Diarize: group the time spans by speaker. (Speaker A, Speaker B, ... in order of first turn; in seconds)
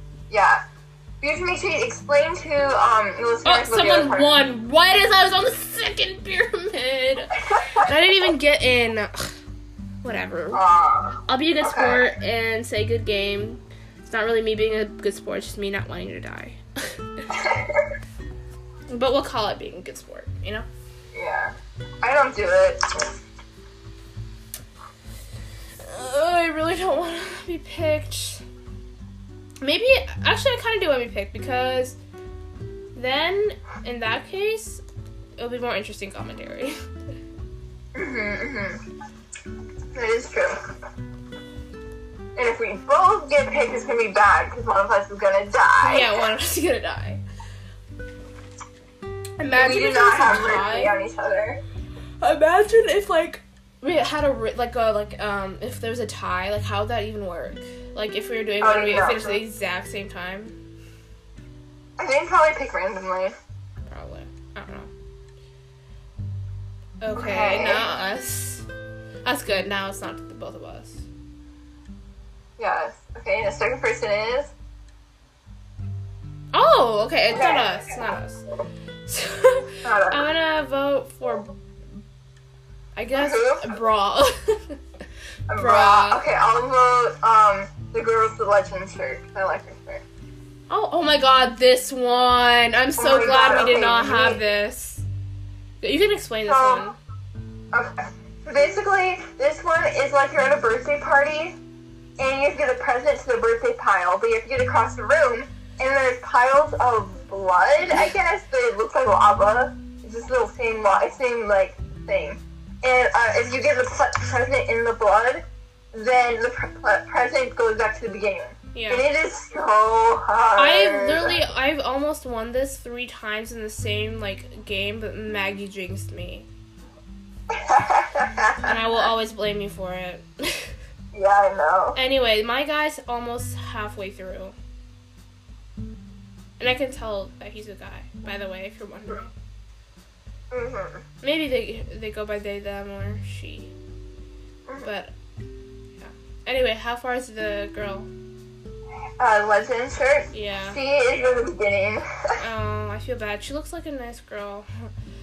Speaker A: 0.3-0.6, 1.2-4.4, 7.6-7.8, 10.5-12.1, 17.3-17.9, 21.1-23.1, 38.0-38.8, 39.9-40.6, 42.4-46.2, 49.5-51.6, 58.6-59.4, 62.0-63.4, 67.1-67.9, 72.6-74.5, 77.3-77.9, 79.8-80.3, 83.2-83.7, 85.5-90.0, 93.0-94.4, 96.5-96.9, 97.7-101.6, 102.2-121.4, 127.5-129.1, 131.1-132.0, 140.5-141.0, 149.2-152.3
Speaker B: 3.4-9.3, 10.0-10.6, 11.3-17.3, 18.9-20.7, 25.8-28.4, 29.6-32.0, 33.0-34.8, 35.4-36.8, 45.8-47.2, 49.4-51.0, 52.2-60.6, 63.9-64.9, 67.0-68.7, 69.2-71.0, 76.5-78.4, 79.1-81.5, 83.0-84.8, 85.6-86.2, 90.7-95.0, 95.8-97.0, 118.7-119.1, 120.6-126.5, 128.6-130.7, 131.9-134.6, 136.6-139.3, 141.2-143.7, 144.8-145.1, 146.0-148.1, 150.3-150.8, 152.4-154.7